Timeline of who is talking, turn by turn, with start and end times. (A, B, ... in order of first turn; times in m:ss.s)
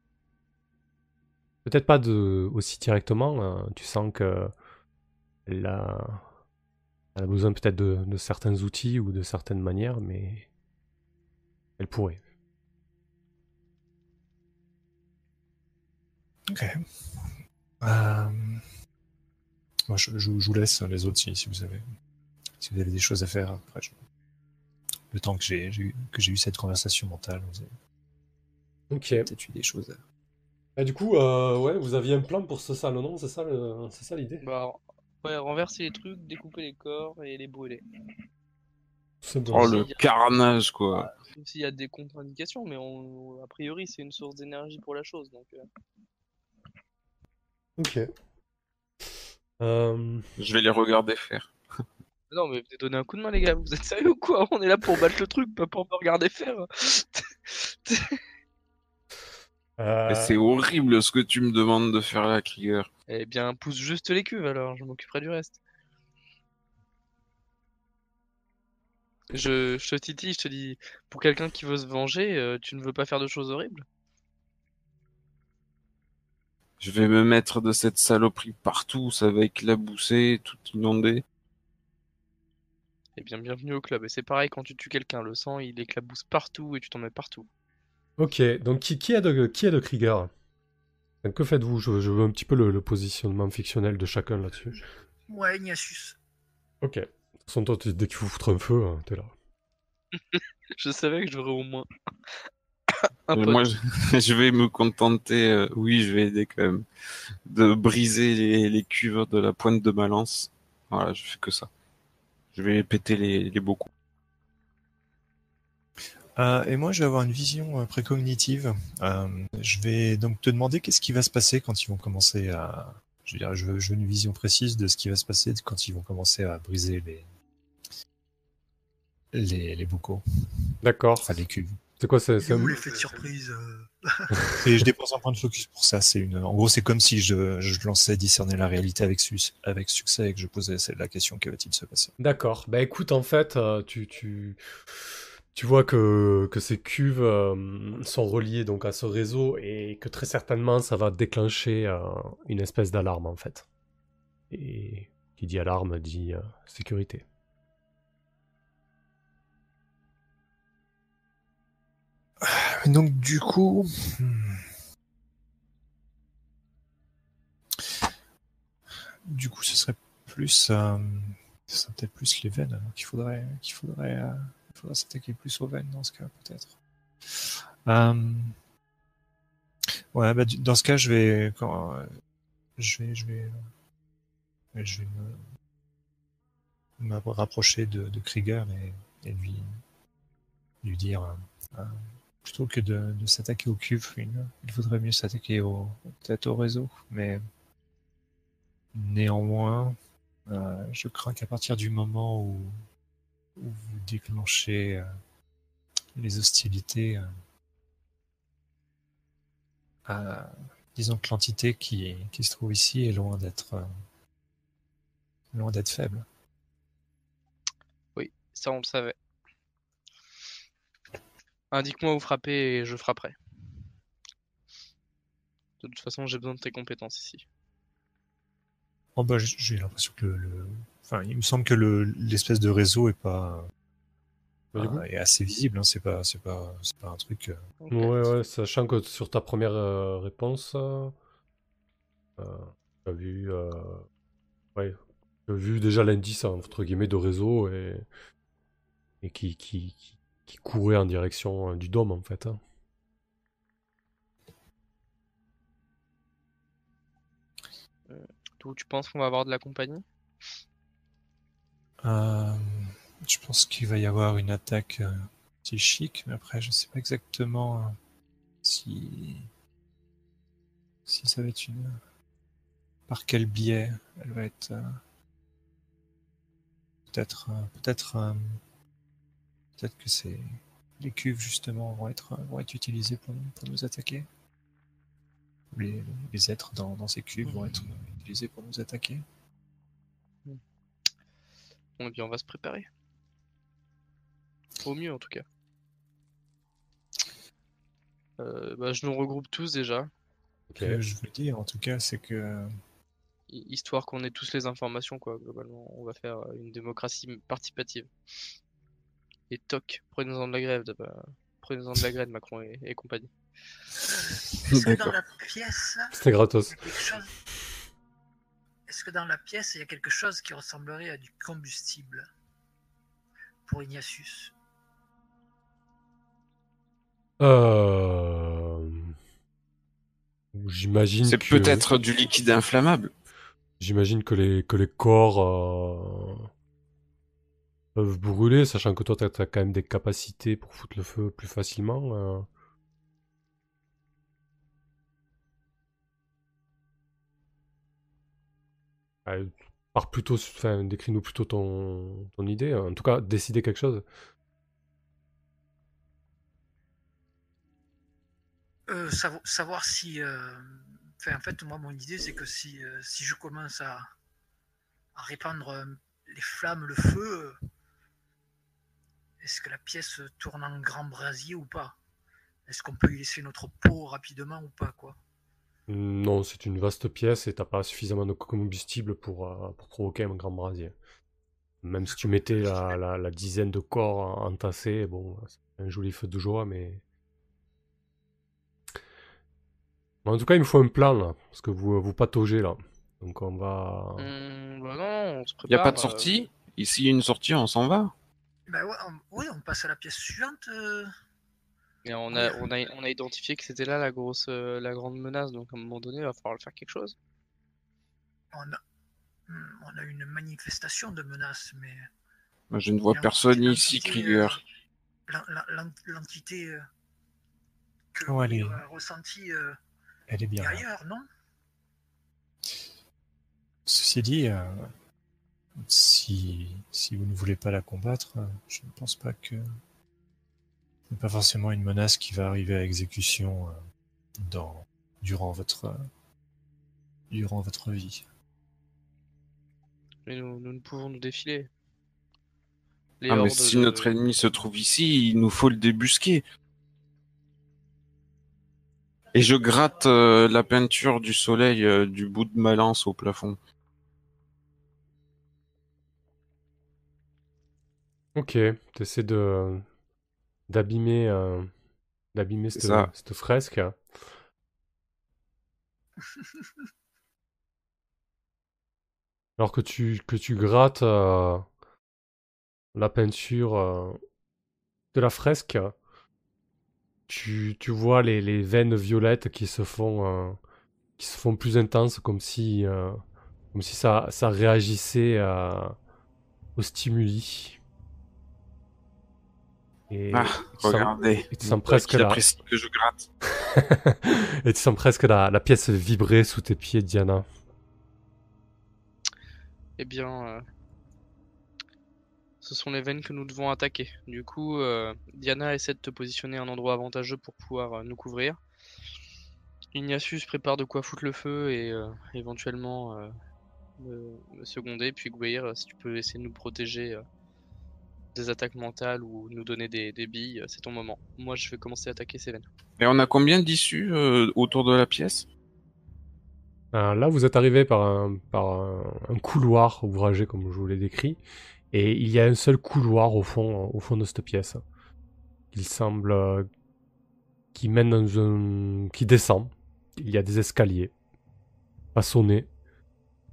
0:01.6-0:04.5 A
0:05.5-0:06.2 A
0:07.1-0:10.5 A
0:11.8-0:12.2 A
0:16.5-0:18.6 B
0:19.9-0:21.8 B
0:22.6-0:24.0 B
0:25.1-0:27.7 B
0:28.9-0:29.3 A
0:29.2-0:30.0 B
0:30.8-0:34.4 A
0:34.4-0:37.8 C
0:39.2-0:39.8 A
0:39.5-0:41.1 D
0:39.7-0:40.0 C
0:41.3-0:45.6 C
0:47.8-0:48.1 A
0:49.6-0:50.3 A
0:50.4-0:51.5 D
0:52.3-0:58.2 C
0:59.8-1:00.4 A
1:00.1-1:02.9 D
1:03.1-1:05.6 C
1:09.3-1:13.8 C
1:16.8-1:21.2 D
1:23.2-1:27.5 C
1:28.2-1:30.3 A
1:31.2-1:34.8 A
1:35.3-1:36.2 E
1:36.8-1:39.3 A
1:40.3-1:41.9 C
1:42.9-1:43.6 C
1:43.3-1:46.8 D
1:47.4-1:51.7 D
1:52.5-1:53.9 D
1:56.4-2:07.3 B
2:09.3-2:10.7 B
2:10.8-2:11.4 A
2:11.2-2:11.8 B
2:12.0-2:12.8 A
2:12.4-2:14.4 E
2:14.6-2:22.1 B
2:22.2-2:24.6 A
2:25.5-2:33.6 A
2:34.5-2:37.2 A
2:42.4-2:44.7 B
2:49.2-2:58.6 B
3:00.1-3:02.1 B
3:02.8-3:03.6 B
3:04.7-3:05.4 B
3:07.0-3:09.8 B
3:10.8-3:17.4 B
3:18.9-3:22.8 B
3:23.6-3:25.1 B
3:26.1-3:27.3 B
3:30.0-3:33.9 B
3:35.5-3:36.2 B
3:38.2-3:39.2 C
3:41.7-3:43.4 C
3:45.8-3:47.4 C
3:49.2-3:53.7 B
3:54.7-3:55.0 A
3:54.8-3:57.6 B
3:57.8-3:58.3 C
3:57.9-4:01.1 A
4:02.4-4:04.1 A
4:04.8-4:08.0 A
4:09.2-4:12.6 A
4:18.1-4:20.0 C
4:22.0-4:28.0 B
4:28.6-4:29.5 B
4:31.0-4:32.0 B
4:33.1-4:35.0 B
4:37.1-4:38.6 B
4:39.8-4:44.3 B
4:45.7-4:49.2 B
4:52.0-4:52.9 C
4:54.8-4:55.4 C
4:58.4-5:00.1 C
5:00.7-5:01.0 A
5:00.8-5:02.7 B
5:03.5-5:08.1 C
5:09.5-5:13.3 C
5:14.0-5:16.1 E
5:14.7-5:15.2 D
5:16.1-5:16.8 A
5:16.7-5:17.3 E
5:18.9-5:22.3 E
5:23.6-5:24.5 E
5:27.4-5:29.1 A
5:30.5-5:31.8 A
5:31.2-5:33.1 D
5:33.8-5:36.5 A
5:37.9-5:42.5 A
5:49.2-5:54.0 A
5:58.9-6:04.1 E
6:05.1-6:07.6 E
6:09.4-6:12.0 E
6:12.7-6:15.2 E
6:15.9-6:20.9 A
6:21.8-6:27.0 A
6:30.2-6:34.3 A
6:34.2-6:36.4 C
6:35.7-6:38.1 D
6:38.7-6:41.1 E
6:42.0-6:47.2 C
6:42.3-6:42.7 E
6:48.5-6:48.8 E
6:49.5-6:52.1 E
6:52.7-6:54.6 D
6:53.1-6:54.6 E
6:55.3-6:56.8 E
6:58.1-6:59.8 E
6:58.2-6:58.8 B
7:00.3-7:00.8 B
7:00.6-7:01.2 E
7:03.8-7:04.9 B
7:05.8-7:09.6 B
7:11.1-7:13.8 B
7:14.4-7:16.1 B
7:17.3-7:18.2 B
7:20.2-7:21.7 C
7:23.2-7:24.1 C
7:23.3-7:26.4 D
7:29.3-7:33.6 D
7:38.4-7:39.8 A
7:40.7-7:41.7 A
7:42.3-7:44.0 A
7:42.7-7:43.1 D
7:49.6-7:51.7 A
7:52.9-7:54.2 A
7:55.1-7:55.9 A
7:57.3-8:00.6 A
8:01.2-8:03.2 A
8:03.7-8:05.9 A
8:06.8-8:07.8 A
8:10.1-8:12.4 A
8:10.3-8:13.3 D
8:13.6-8:17.4 A
8:20.0-8:20.6 C
8:22.6-8:28.6 C
8:29.9-8:33.3 C
8:34.0-8:37.2 C
8:38.3-8:42.6 C
8:43.0-8:45.5 D
8:46.9-8:51.4 A
8:51.9-8:54.8 A
8:55.7-8:56.7 A
8:57.7-9:01.1 A
9:02.1-9:02.7 A